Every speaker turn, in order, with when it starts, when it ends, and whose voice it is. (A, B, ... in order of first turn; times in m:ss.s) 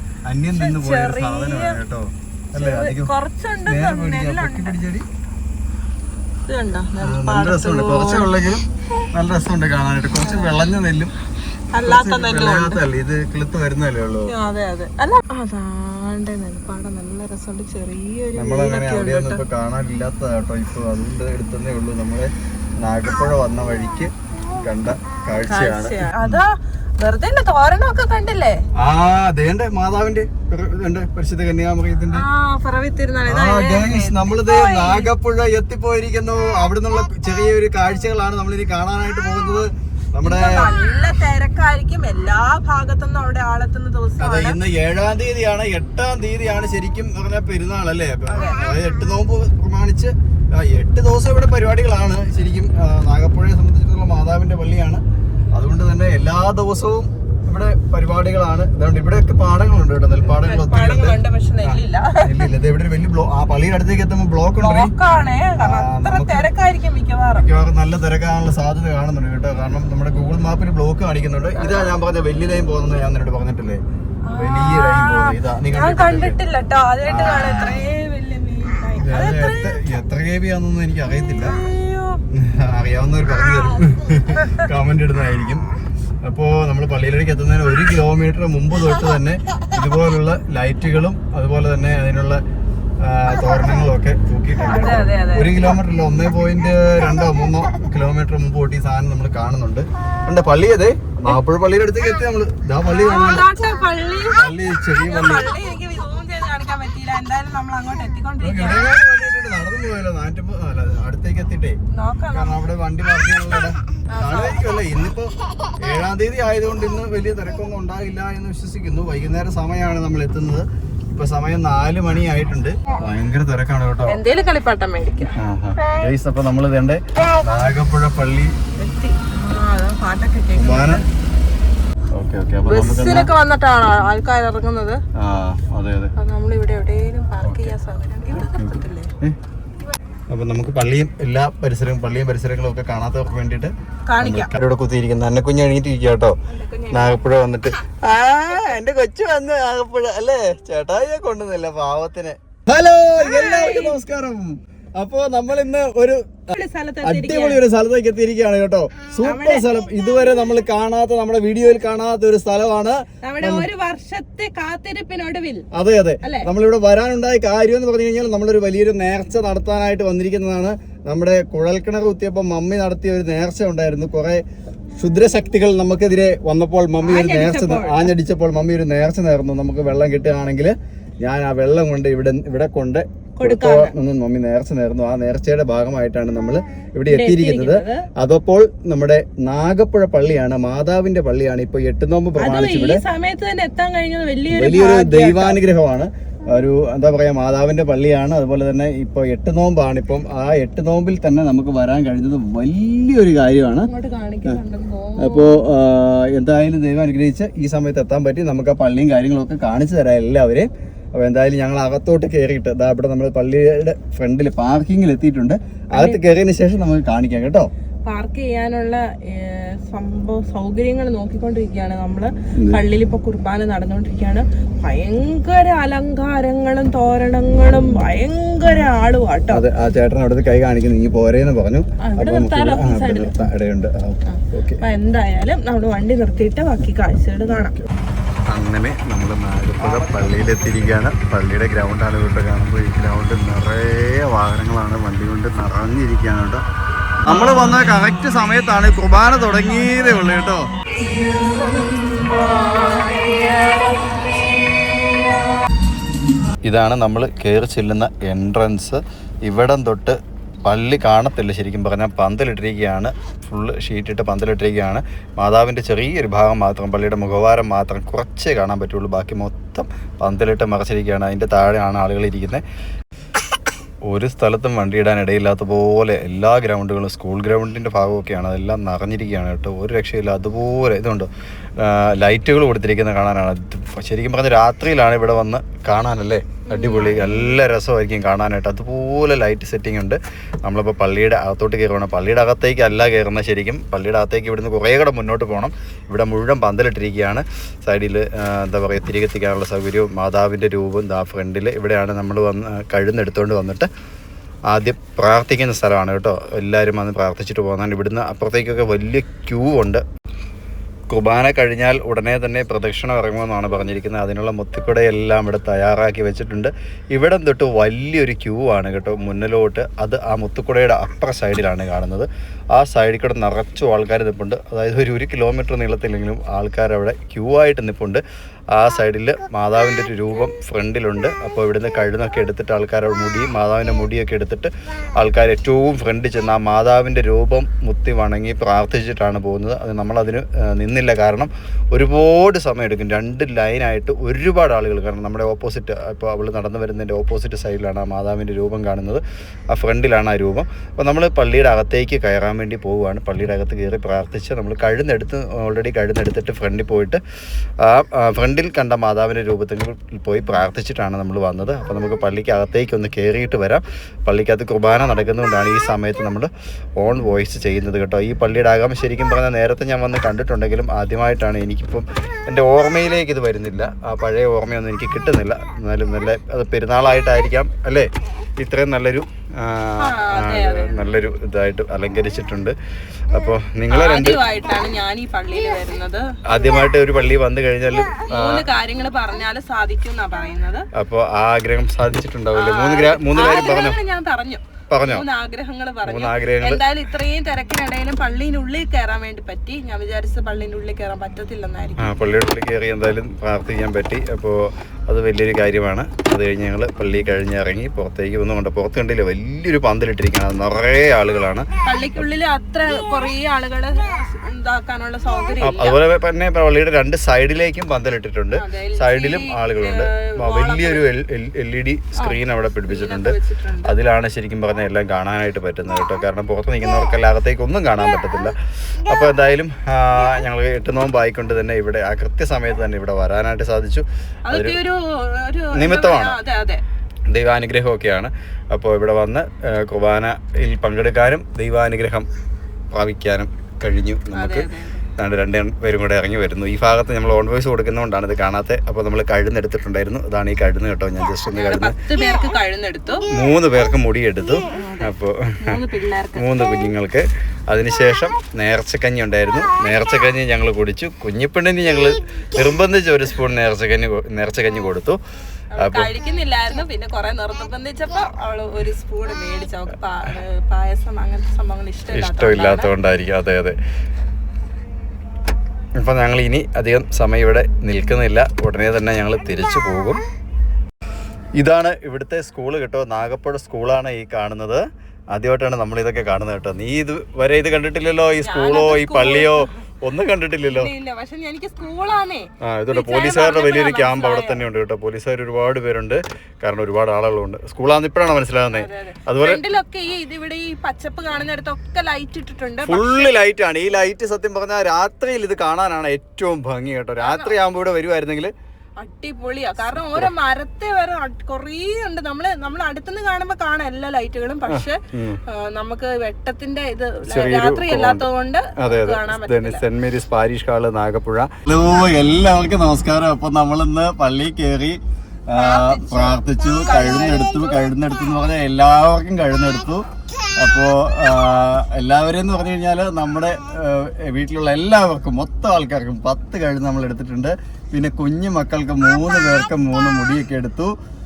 0:00.3-0:03.1 A
0:00.5-0:01.8 B
0:02.5-0:04.8 B
0:03.7-0:05.1 A
0:06.5-0:08.3 B
0:07.0-0:11.1 A
0:10.2-0:10.5 B
0:11.7-0:12.8 B
0:11.9-0:14.3 A
0:14.3-0:19.4 B
0:18.3-0:26.4 A
0:25.4-0:28.6 B
0:28.8-0:32.2 A
0:32.1-0:35.1 B
0:33.3-0:40.7 A
0:40.2-0:44.6 B
0:44.2-0:55.0 A
0:48.3-0:48.8 B
0:55.5-1:04.9 A
1:00.3-1:02.5 B
1:04.6-1:07.5 B
1:05.6-1:06.5 A
1:07.4-1:13.8 A
1:14.2-1:20.0 B
1:14.4-1:16.4 A
1:17.1-1:17.9 A
1:19.0-1:21.6 A
1:21.4-1:22.2 B
1:22.3-1:25.7 A
1:23.5-1:24.6 B
1:26.2-1:32.4 A
1:33.0-1:43.5 A
1:34.7-1:35.8 B
1:42.8-1:49.0 B
1:44.4-1:45.5 A
1:48.4-1:51.8 A
1:51.9-1:52.7 B
1:52.3-2:04.2 A
1:54.1-1:54.8 B
2:04.1-2:05.4 B
2:05.4-2:08.5 A
2:08.8-2:11.1 B
2:10.6-2:11.0 A
2:12.2-2:13.3 A
2:12.6-2:15.0 B
2:15.2-2:16.1 A
2:16.2-2:19.1 B
2:17.4-2:17.7 A
2:18.4-2:19.4 A
2:20.3-2:26.4 A
2:24.1-2:24.5 B
2:26.5-2:27.2 B
2:26.9-2:43.7 A
2:33.2-2:34.0 B
2:36.5-2:37.6 B
2:39.2-2:39.8 B
2:43.2-2:45.7 B
2:45.7-2:54.4 A
2:46.2-2:46.5 B
2:55.0-3:13.0 A
2:57.0-2:58.1 B
3:03.4-3:03.9 B
3:07.1-3:08.1 B
3:12.4-3:15.6 B
3:14.5-3:23.9 A
3:23.8-3:25.6 B
3:25.2-3:37.7 A
3:35.9-3:36.2 B
3:38.0-3:49.6 B
3:49.5-3:54.8 A
3:52.0-3:53.4 B
3:54.3-3:57.8 B
3:58.5-4:06.6 A
4:07.2-4:10.7 A
4:07.3-4:07.7 B
4:11.0-4:15.3 B
4:16.6-4:32.6 A
4:34.1-4:41.3 A
4:41.8-5:03.9 A
4:46.7-4:47.6 B
5:04.7-5:10.0 A
5:11.1-5:28.2 A
5:28.7-5:57.2 A
5:57.8-6:18.1 A
6:18.6-6:22.8 A
6:20.0-6:21.1 B
6:23.3-6:24.4 A
6:23.9-6:26.3 B
6:26.5-6:28.7 A
6:28.3-6:30.9 B
6:31.0-6:34.0 A
6:32.5-6:42.1 B
6:34.9-6:35.2 A
6:36.0-6:36.8 A
6:42.0-6:52.2 A
6:51.8-6:56.0 B
6:55.6-7:14.8 A
6:58.6-7:01.1 B
7:02.2-7:04.0 B
7:14.5-7:16.8 B
7:15.7-7:16.4 A
7:17.3-7:22.3 A
7:22.9-7:32.0 A
7:24.3-7:25.0 B
7:31.5-7:33.3 B
7:33.3-7:35.8 A
7:34.7-7:36.9 B
7:36.4-7:45.2 A
7:45.8-7:52.9 B
7:45.8-7:46.1 A
7:52.1-7:53.8 A
7:56.0-8:00.2 A
8:01.6-8:10.9 A
8:08.4-8:09.7 B
8:10.7-8:14.6 B
8:12.6-8:19.6 A
8:18.7-8:23.3 B
8:22.9-8:28.5 A
8:27.2-8:27.6 B
8:29.0-8:39.8 B
8:29.8-8:30.3 A
8:34.7-8:35.4 A
8:37.3-8:38.3 A
8:38.8-8:50.0 A
8:45.5-8:47.9 B
8:50.6-9:01.0 A